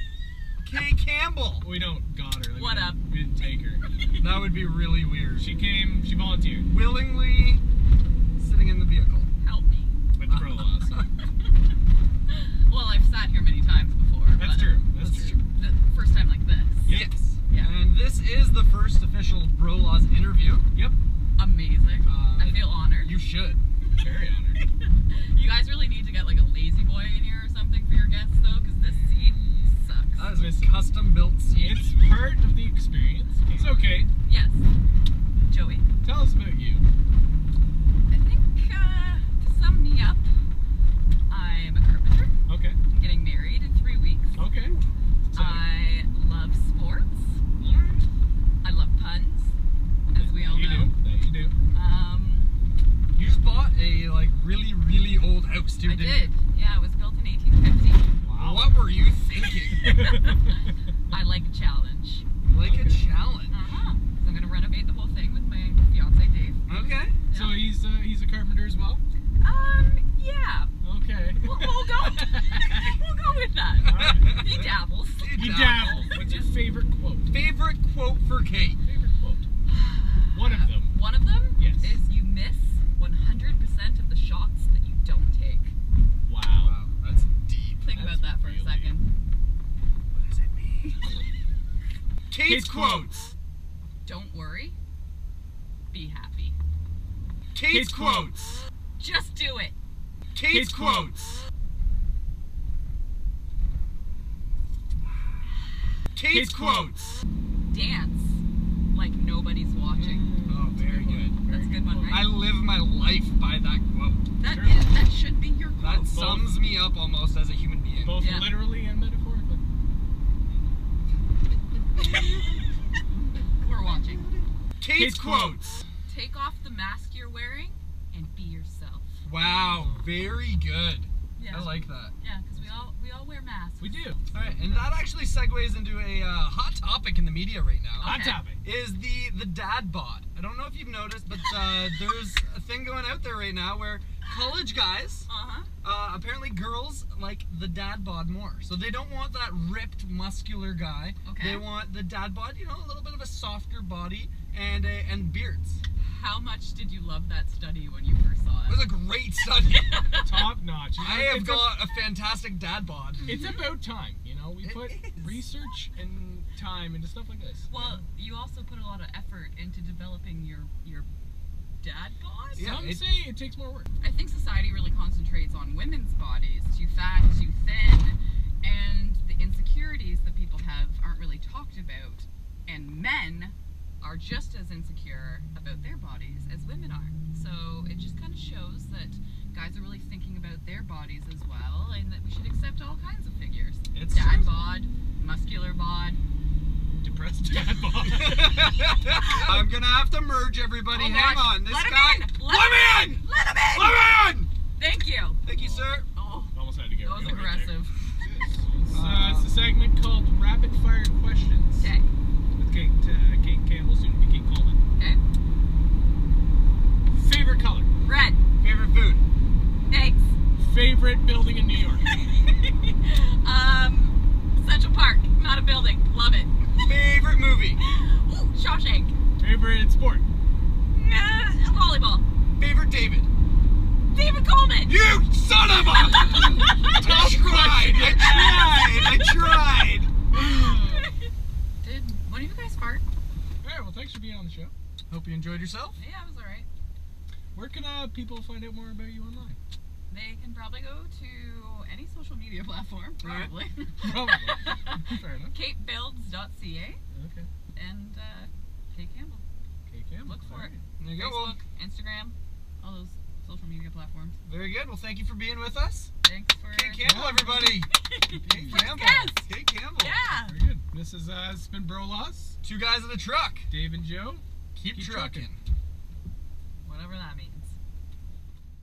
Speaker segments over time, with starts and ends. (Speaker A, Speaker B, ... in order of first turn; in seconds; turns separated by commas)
Speaker A: 0.6-1.7, Speaker B: 1.6-3.8, Speaker C: 2.5-3.0, Speaker C: 3.9-4.3, Speaker A: 4.2-5.5, Speaker B: 5.3-6.7, Speaker A: 6.7-7.6, Speaker A: 8.4-9.3, Speaker C: 9.4-10.0, Speaker B: 10.2-11.0, Speaker A: 10.3-11.0, Speaker C: 12.3-14.8, Speaker B: 14.3-15.4, Speaker A: 15.0-15.4, Speaker C: 15.5-17.8, Speaker B: 16.9-17.1, Speaker A: 16.9-20.7, Speaker C: 21.4-23.2, Speaker A: 22.1-23.6, Speaker B: 24.0-24.6, Speaker C: 24.6-30.3, Speaker B: 28.8-29.8, Speaker A: 30.2-31.9, Speaker B: 30.3-30.9, Speaker B: 31.5-34.1, Speaker C: 33.5-34.6, Speaker C: 35.4-35.9, Speaker B: 36.0-36.9, Speaker C: 38.1-40.3, Speaker C: 41.3-42.3, Speaker B: 42.5-42.8, Speaker C: 42.9-44.4, Speaker B: 44.4-44.8, Speaker B: 45.3-45.7, Speaker C: 45.3-47.4, Speaker B: 47.6-48.1, Speaker C: 48.6-49.5, Speaker C: 50.1-50.9, Speaker B: 50.1-51.5, Speaker C: 51.7-52.5, Speaker A: 53.1-56.3, Speaker C: 55.8-58.1, Speaker B: 58.2-58.8, Speaker A: 58.4-59.8, Speaker C: 59.4-62.2, Speaker B: 59.7-60.6, Speaker A: 62.5-63.6, Speaker B: 62.6-63.1, Speaker C: 63.5-66.6, Speaker A: 66.7-67.2, Speaker C: 67.3-67.6, Speaker B: 67.3-69.0, Speaker C: 69.4-70.7, Speaker B: 70.8-73.0, Speaker C: 71.4-76.5, Speaker B: 73.8-77.3, Speaker A: 73.9-76.1, Speaker A: 77.3-78.8, Speaker B: 78.8-79.5, Speaker C: 79.7-85.7, Speaker B: 80.3-81.0, Speaker B: 81.5-82.0, Speaker B: 86.2-86.8, Speaker A: 86.6-87.9, Speaker C: 87.8-89.0, Speaker B: 87.9-89.0, Speaker A: 90.1-91.0, Speaker A: 92.3-93.3, Speaker B: 92.4-93.3, Speaker C: 94.0-94.8, Speaker C: 95.9-96.6, Speaker A: 97.5-98.6, Speaker B: 97.6-98.4, Speaker C: 99.0-99.8, Speaker A: 100.3-101.4, Speaker B: 100.4-101.3, Speaker A: 106.1-107.2, Speaker B: 106.2-107.0, Speaker C: 107.7-110.3, Speaker B: 109.9-112.3, Speaker A: 110.4-111.3, Speaker C: 111.5-112.3, Speaker A: 112.1-114.2, Speaker C: 114.4-116.1, Speaker B: 114.4-114.9, Speaker A: 115.8-118.3, Speaker B: 116.0-116.7, Speaker B: 118.0-119.6, Speaker C: 118.2-118.7, Speaker A: 122.0-122.6, Speaker C: 123.6-124.3, Speaker A: 123.8-125.8, Speaker B: 124.9-125.7, Speaker C: 126.0-129.5, Speaker A: 129.2-132.1, Speaker B: 129.8-130.0, Speaker C: 131.4-134.2, Speaker B: 131.5-131.9, Speaker B: 133.8-134.9, Speaker A: 134.3-145.3, Speaker C: 138.0-138.4, Speaker B: 138.0-138.6, Speaker C: 145.3-145.7, Speaker A: 145.8-155.8, Speaker C: 151.2-151.7, Speaker C: 156.0-158.9, Speaker A: 158.7-160.0, Speaker C: 159.8-160.4, Speaker B: 160.2-161.9, Speaker A: 161.0-163.4, Speaker C: 163.2-163.6, Speaker B: 163.2-168.0, Speaker A: 164.6-165.3, Speaker C: 167.7-171.1, Speaker C: 171.8-172.7, Speaker A: 172.5-173.0, Speaker B: 172.6-173.9, Speaker C: 174.0-196.2, Speaker A: 193.9-194.7, Speaker B: 197.0-198.7, Speaker A: 197.3-204.5, Speaker C: 199.0-199.6, Speaker C: 200.9-204.0, Speaker C: 204.8-205.4, Speaker A: 205.4-206.1, Speaker B: 205.5-211.9, Speaker C: 206.1-208.1, Speaker A: 208.9-209.5, Speaker C: 211.8-212.1, Speaker B: 212.5-214.8, Speaker B: 217.1-217.9, Speaker C: 218.0-218.4, Speaker A: 218.6-219.2, Speaker C: 219.9-220.3, Speaker B: 220.6-222.1, Speaker C: 222.1-226.9, Speaker A: 226.8-227.8, Speaker C: 227.8-229.1, Speaker B: 229.4-230.2, Speaker C: 230.9-232.2, Speaker A: 232.6-233.3, Speaker C: 234.1-235.0, Speaker A: 234.8-240.1, Speaker C: 235.9-237.3, Speaker B: 236.8-238.9, Speaker C: 238.2-239.2, Speaker B: 240.3-241.2, Speaker C: 240.8-241.3, Speaker C: 241.8-243.0, Speaker B: 243.6-244.7, Speaker A: 245.1-246.0, Speaker C: 246.0-246.7, Speaker B: 247.5-249.6, Speaker C: 250.1-257.0, Speaker A: 253.2-253.5, Speaker B: 254.0-255.5, Speaker B: 257.1-257.5, Speaker C: 257.7-259.4, Speaker B: 259.9-260.8, Speaker C: 260.2-264.3, Speaker A: 261.0-261.6, Speaker A: 264.4-266.1, Speaker C: 266.2-267.1, Speaker A: 266.7-270.2, Speaker B: 267.0-269.0, Speaker C: 267.8-270.6, Speaker B: 270.4-272.6, Speaker A: 272.6-273.7, Speaker B: 273.7-275.5, Speaker A: 274.7-275.6, Speaker C: 276.8-277.8